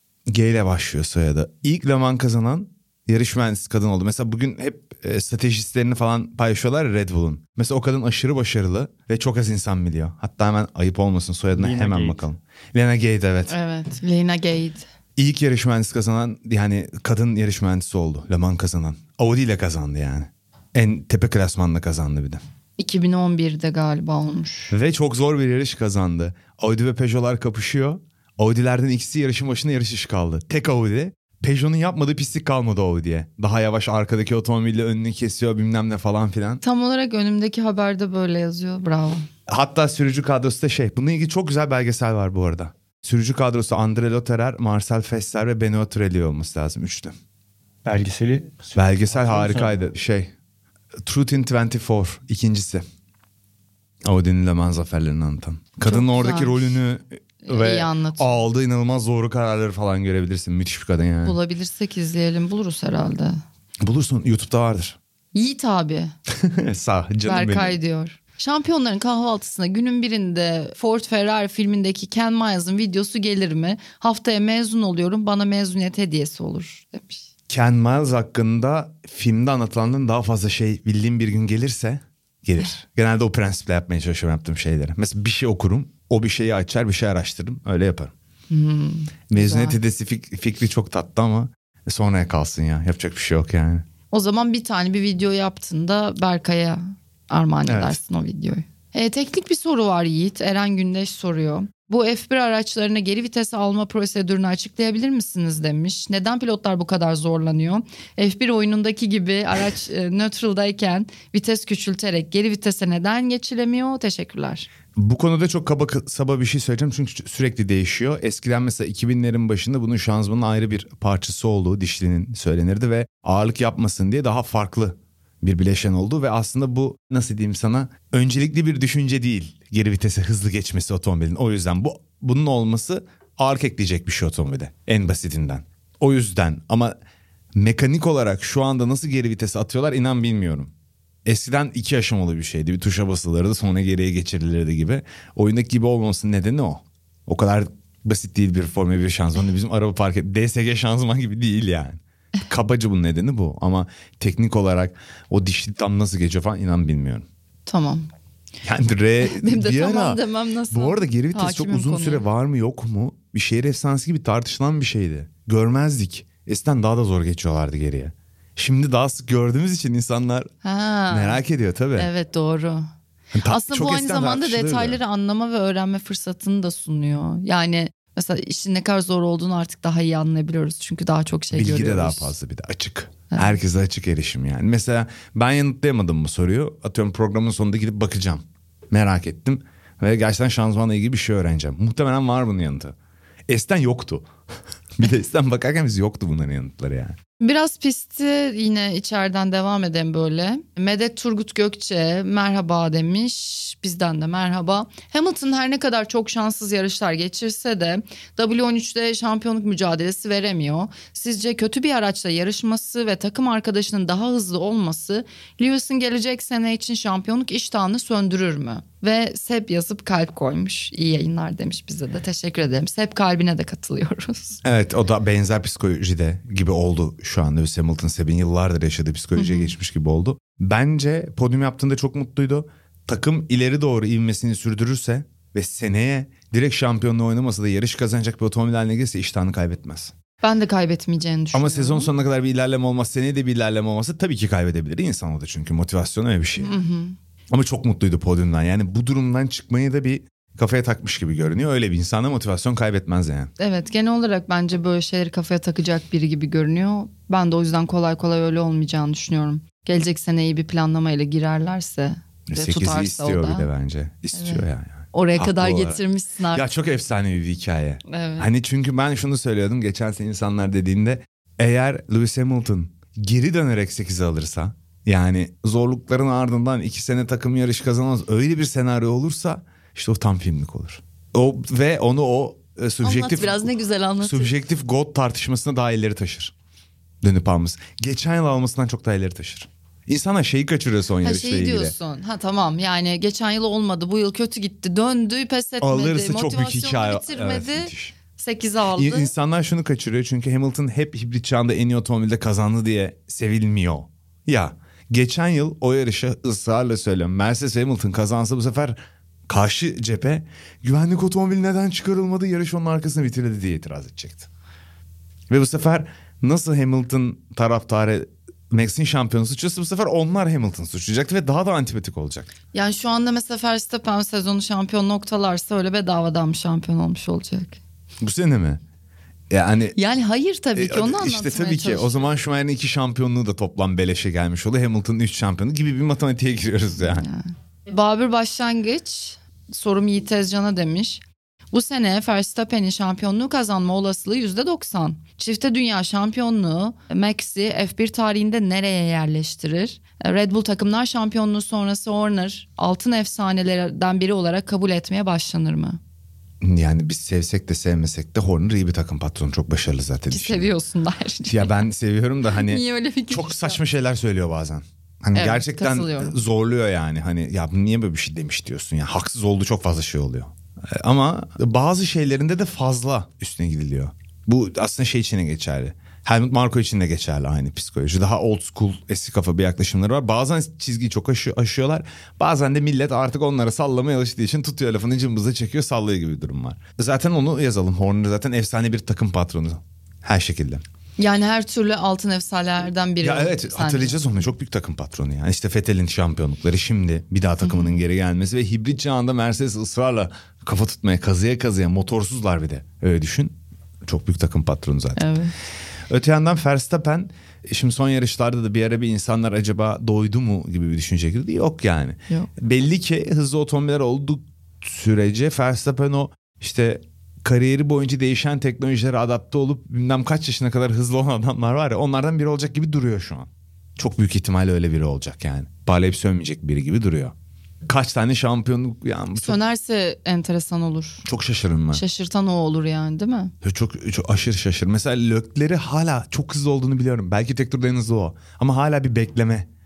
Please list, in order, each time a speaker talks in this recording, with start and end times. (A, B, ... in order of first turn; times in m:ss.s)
0:00.3-0:13.5 A
0:11.6-0:12.2 B
0:13.5-0:14.9 C
0:15.2-0:22.4 A
0:22.8-0:24.7 C
0:24.7-0:36.6 A
0:36.6-0:39.3 C
0:39.5-0:47.1 A
0:47.8-0:49.8 B
0:48.7-0:50.3 A
0:51.0-0:52.8 A
0:54.0-1:01.4 A
0:55.8-0:56.8 C
0:57.4-0:58.4 C
1:01.2-1:03.4 C
1:03.8-1:05.0 A
1:05.3-1:06.1 C
1:06.3-1:07.8 A
1:07.2-1:17.2 C
1:17.5-1:28.1 A
1:28.5-1:29.8 C
1:29.3-1:33.8 A
1:34.1-1:54.7 C
1:37.7-1:38.0 A
1:55.0-2:16.9 A
2:17.5-2:20.7 A
2:21.2-2:37.3 A
2:37.7-2:38.1 C
2:38.6-2:40.2 A
2:39.2-2:42.2 C
2:40.7-2:50.5 A
2:50.6-2:51.4 C
2:51.1-2:52.1 A
2:52.0-2:52.9 C
2:53.3-2:55.0 A
2:53.4-3:02.3 C
3:01.5-3:13.0 A
3:03.3-3:03.6 C
3:13.5-3:14.3 A
3:15.0-3:17.2 A
3:17.4-3:44.6 C
3:44.6-4:00.1 A
3:49.4-3:49.7 C
4:00.4-4:02.1 C
4:01.5-4:06.8 A
4:06.6-4:07.2 C
4:07.5-4:13.5 A
4:13.6-4:23.7 C
4:22.5-4:26.0 A
4:24.3-4:26.6 C
4:26.5-4:46.5 A
4:28.1-4:28.5 C
4:43.0-4:44.5 C
4:47.2-4:51.9 A
4:51.2-4:59.3 C
4:55.8-4:58.1 A
4:59.0-5:14.5 A
5:15.5-5:22.5 A
5:22.7-5:27.8 C
5:28.2-5:28.8 A
5:29.5-5:30.0 A
5:29.9-5:32.2 C
5:30.8-5:37.2 A
5:37.0-5:41.2 C
5:41.7-5:56.0 C
5:56.6-6:00.7 A
6:00.3-6:01.7 C
6:01.4-6:30.8 A
6:02.6-6:03.8 C
6:05.3-6:06.4 C
6:31.2-6:34.4 C
6:33.2-6:45.3 A
6:37.6-6:38.0 C
6:45.2-6:45.5 C
6:45.9-7:07.3 A
7:07.8-7:09.6 A
7:09.4-7:11.2 C
7:11.2-7:12.0 A
7:11.9-7:13.5 C
7:13.6-7:19.7 A